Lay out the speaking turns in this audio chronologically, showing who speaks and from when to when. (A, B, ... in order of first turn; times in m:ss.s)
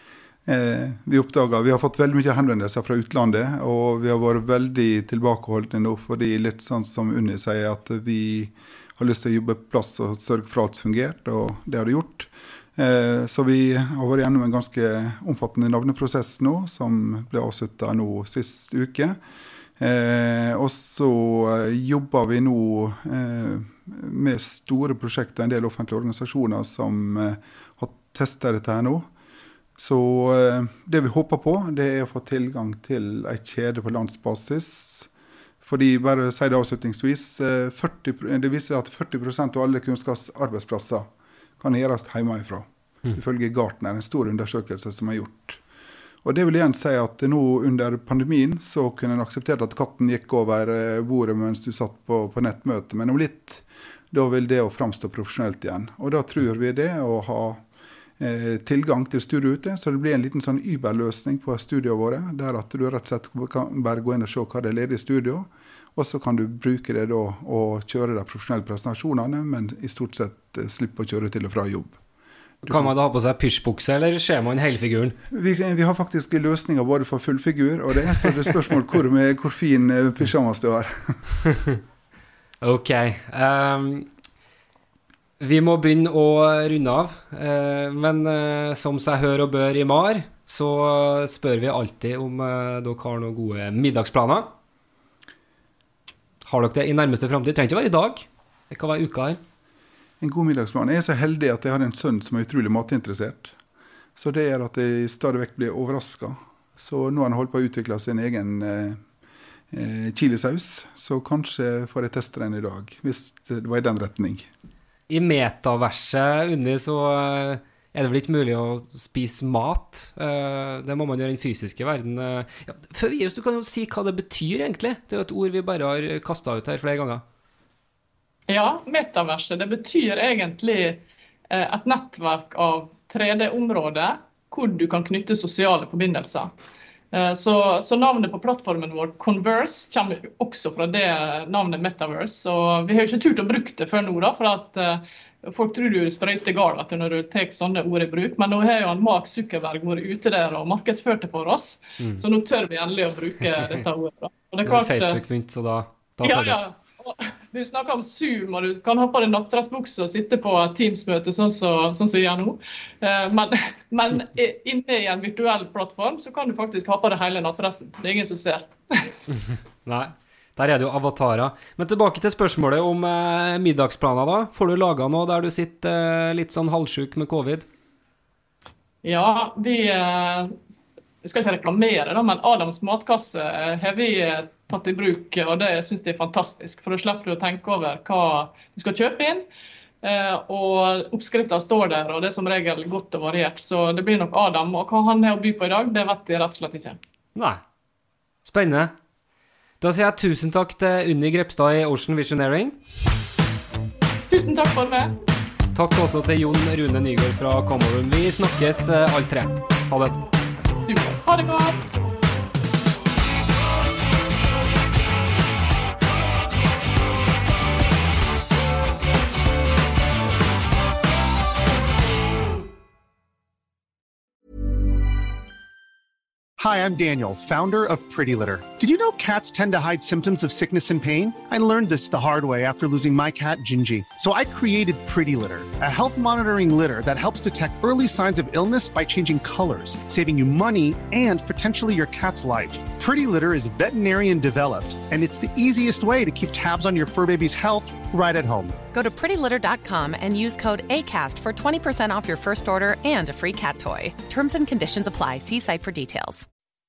0:00.4-0:19.2 A
0:19.8-0:29.1 A
0:29.8-0:35.1 A
0:35.6-0:41.1 A
0:41.6-0:45.6 A
0:46.2-0:57.6 A
0:58.2-1:12.0 A
1:12.6-1:12.9 A
1:12.7-1:15.2 B
1:15.3-1:21.2 A
1:22.6-1:24.1 B
1:25.4-1:34.5 B
1:36.4-1:39.4 B
1:40.2-1:43.5 A
1:44.2-1:49.0 A
1:49.7-1:54.5 A
1:55.1-2:07.2 B
2:08.5-2:16.5 C
2:17.1-2:35.2 C
2:34.6-2:36.6 B
2:36.2-2:49.2 C
2:49.3-2:57.7 B
2:59.0-3:00.5 C
3:01.2-3:09.4 C
3:10.0-3:17.0 C
3:17.4-3:17.6 B
3:18.4-3:18.9 B
3:19.8-3:22.8 B
3:24.3-3:25.1 C
3:25.7-3:30.2 B
3:30.8-3:31.9 C
3:46.6-4:08.8 D
4:08.9-4:16.5 E